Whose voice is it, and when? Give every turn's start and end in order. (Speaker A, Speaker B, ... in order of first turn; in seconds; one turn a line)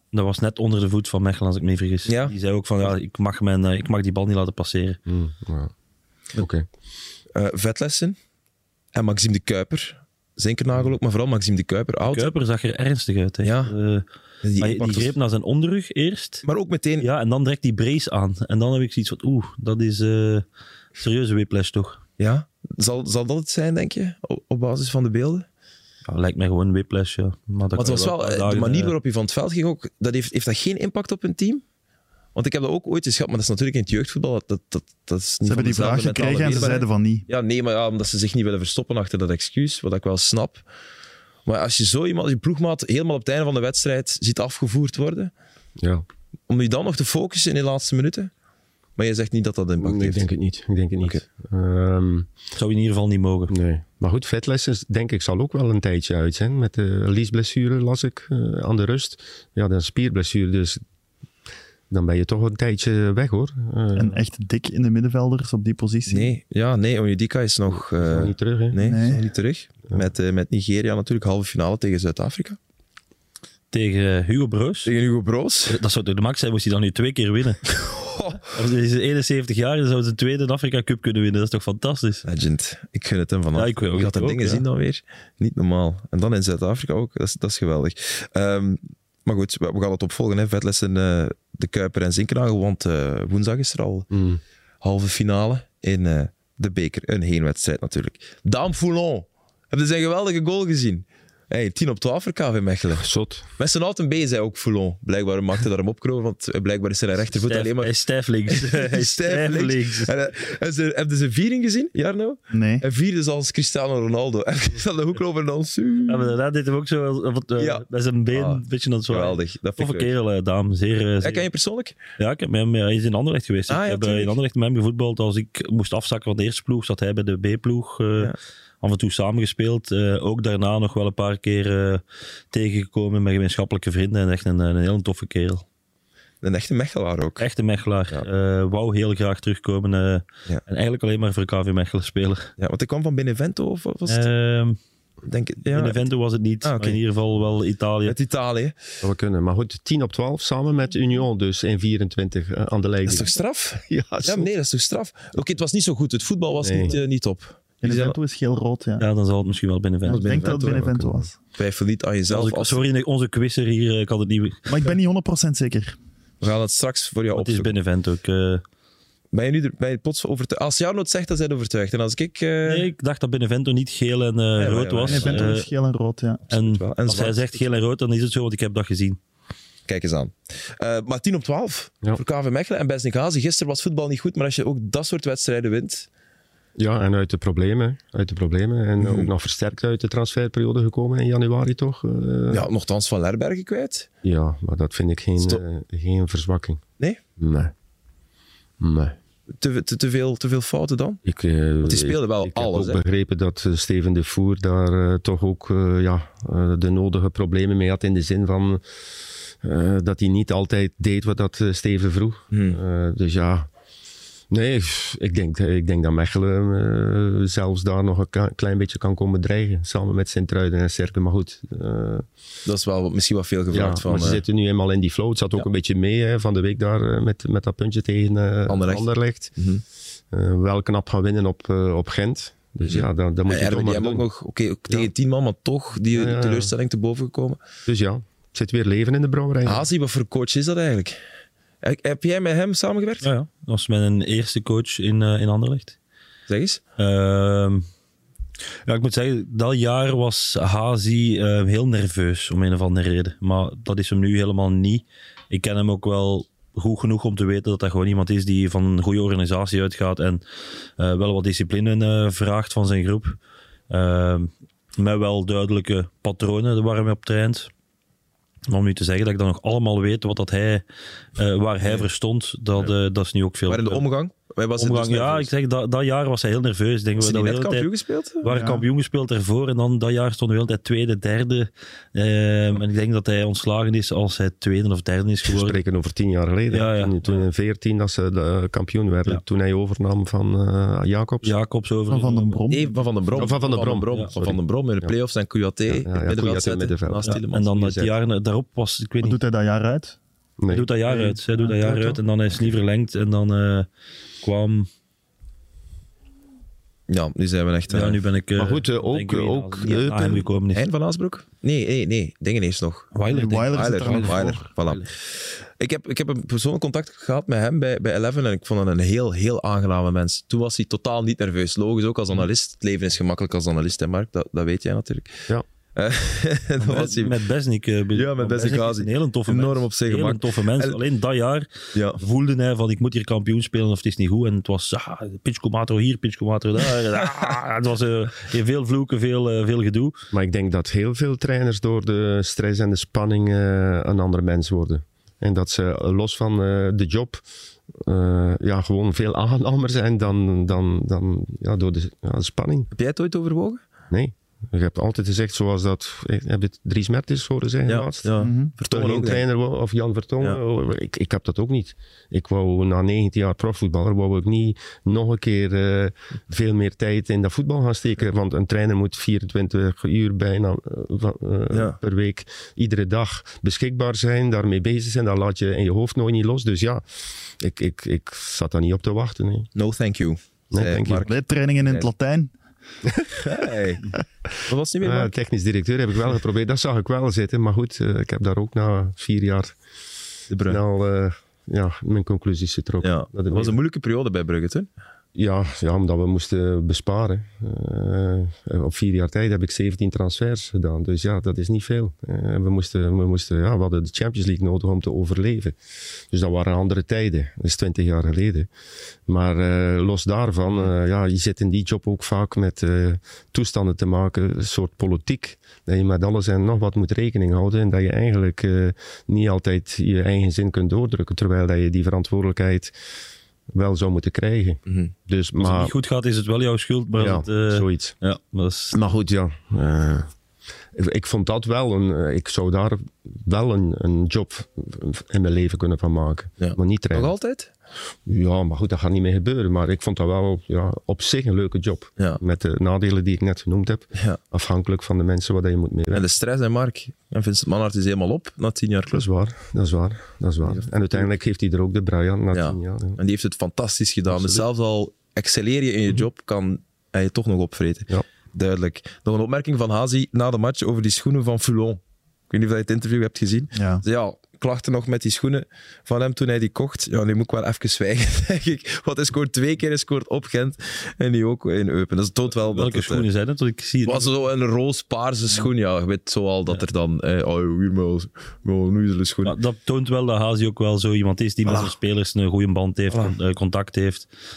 Speaker A: 0.1-5.0
Speaker B: 2.1-2.3
Speaker C: 5.0-5.7
Speaker C: 6.3-6.7
Speaker B: 7.3-8.2
Speaker B: 8.9-12.3
Speaker A: 12.1-14.0
Speaker B: 13.4-13.7
Speaker B: 14.4-15.1
Speaker A: 14.6-16.4
Speaker B: 16.4-17.1
Speaker A: 17.0-20.4
Speaker A: 21.0-22.0
Speaker B: 22.2-25.4
Speaker A: 26.1-28.9
Speaker B: 27.8-31.6
Speaker B: 32.3-40.6
Speaker D: 35.4-37.2
Speaker B: 41.5-45.3
Speaker C: 45.8-46.0
Speaker B: 46.5-48.3
Speaker B: 49.0-50.3
Speaker C: 49.8-52.3
Speaker A: 52.5-53.5
Speaker C: 53.5-60.8
Speaker C: 61.9-64.2
Speaker D: 63.9-66.3
Speaker B: 66.1-72.6
Speaker C: 67.7-68.8
Speaker D: 68.8-69.2
Speaker A: 73.7-74.9
Speaker B: 74.8-75.8
Speaker A: 75.7-77.6
Speaker B: 77.7-78.4
Speaker A: 78.5-82.2
Speaker B: 82.2-94.1
Speaker A: 83.5-84.6
Speaker C: 94.1-94.4
Speaker B: 94.8-103.1
Speaker C: 103.0-103.5
Speaker B: 103.6-107.9
Speaker A: 107.4-110.1
Speaker B: 108.5-116.3
Speaker D: 112.5-112.8
Speaker A: 116.1-121.5
Speaker B: 117.6-120.1
Speaker B: 121.2-122.0
Speaker A: 122.2-135.6
Speaker B: 123.7-124.4
Speaker B: 136.4-137.4
Speaker A: 137.4-142.5
Speaker B: 142.6-144.3
Speaker A: 144.1-144.8
Speaker B: 145.2-146.0
Speaker A: 145.7-148.2
Speaker B: 146.6-147.0
Speaker B: 148.1-148.8
Speaker C: 149.0-153.3
Speaker B: 153.1-158.2
Speaker C: 153.9-154.5
Speaker C: 156.6-157.0
Speaker D: 157.8-159.0
Speaker A: 159.0-160.3
Speaker D: 160.1-161.3
Speaker B: 160.1-160.9
Speaker C: 160.3-161.3
Speaker B: 161.5-162.8
Speaker A: 162.3-164.7
Speaker D: 164.7-165.9
Speaker B: 166.4-167.7
Speaker A: 167.3-168.6
Speaker B: 169.3-172.9
Speaker A: 172.6-175.7
Speaker B: 174.6-175.5
Speaker D: 175.1-176.4
Speaker B: 176.5-177.6
Speaker A: 176.5-179.2
Speaker B: 179.9-186.1
Speaker C: 186.8-192.7
Speaker B: 189.0-189.3
Speaker B: 192.5-194.1
Speaker C: 194.2-196.8
Speaker C: 197.4-197.7
Speaker C: 198.8-199.2
Speaker B: 199.6-201.2
Speaker C: 201.2-208.8
Speaker B: 201.8-203.0
Speaker C: 209.6-213.7
Speaker B: 212.5-212.8
Speaker C: 214.5-222.2
Speaker B: 222.6-224.4
Speaker C: 223.7-229.5
Speaker B: 228.7-229.8
Speaker C: 230.3-234.2
Speaker B: 232.9-237.6
Speaker C: 236.1-236.7
Speaker C: 237.8-239.9
Speaker B: 239.6-241.2
Speaker B: 241.8-243.3
Speaker A: 243.2-246.0
Speaker B: 246.5-246.8
Speaker A: 247.0-247.8
Speaker A: 248.8-260.4
Speaker A: 261.0-263.4
Speaker A: 263.9-267.7
Speaker A: 268.7-270.8
Speaker A: 271.4-274.0
Speaker B: 273.7-275.5
Speaker A: 274.8-277.9
Speaker B: 277.2-278.4
Speaker A: 278.4-285.8
Speaker D: 278.5-278.8
Speaker C: 285.4-291.5
Speaker A: 286.7-287.1
Speaker A: 291.4-292.6
Speaker D: 292.1-292.9
Speaker B: 292.7-297.9
Speaker C: 293.3-295.1
Speaker C: 295.9-298.1
Speaker A: 297.2-299.4
Speaker D: 299.2-300.2
Speaker C: 300.6-300.9
Speaker A: 300.7-303.9
Speaker A: 304.4-304.9
Speaker B: 307.1-308.2
Speaker A: 307.9-310.8
Speaker C: 308.6-310.5
Speaker B: 310.7-313.1
Speaker A: 313.1-315.1
Speaker D: 313.3-314.7
Speaker B: 313.7-327.4
Speaker A: 326.8-340.2
Speaker B: 328.1-331.0
Speaker B: 331.9-332.2
Speaker C: 340.3-352.9
Speaker B: 352.9-353.8
Speaker C: 354.1-358.3
Speaker B: 357.9-359.4
Speaker D: 358.4-358.7
Speaker C: 358.9-377.0
Speaker B: 371.7-372.0
Speaker C: 377.6-379.7
Speaker B: 379.7-382.1
Speaker C: 380.7-381.2
Speaker D: 381.2-382.5
Speaker C: 383.0-383.7
Speaker B: 383.4-384.1
Speaker B: 384.6-385.3
Speaker C: 385.0-389.7
Speaker B: 390.5-390.8
Speaker C: 390.7-393.8
Speaker B: 393.0-394.9
Speaker C: 395.3-405.8
Speaker C: 406.3-408.7
Speaker C: 409.3-422.9
Speaker C: 423.7-425.9
Speaker A: 425.6-428.9
Speaker C: 427.2-428.1
Speaker C: 428.9-430.3
Speaker C: 430.9-437.3
Speaker B: 436.6-437.7
Speaker C: 438.2-446.2
Speaker B: 446.1-449.2
Speaker C: 449.1-453.2
Speaker B: 452.5-473.2
Speaker C: 454.3-454.6
Speaker D: 463.7-464.0
Speaker A: 472.6-474.3
Speaker B: 474.0-479.5
Speaker A: 479.4-484.3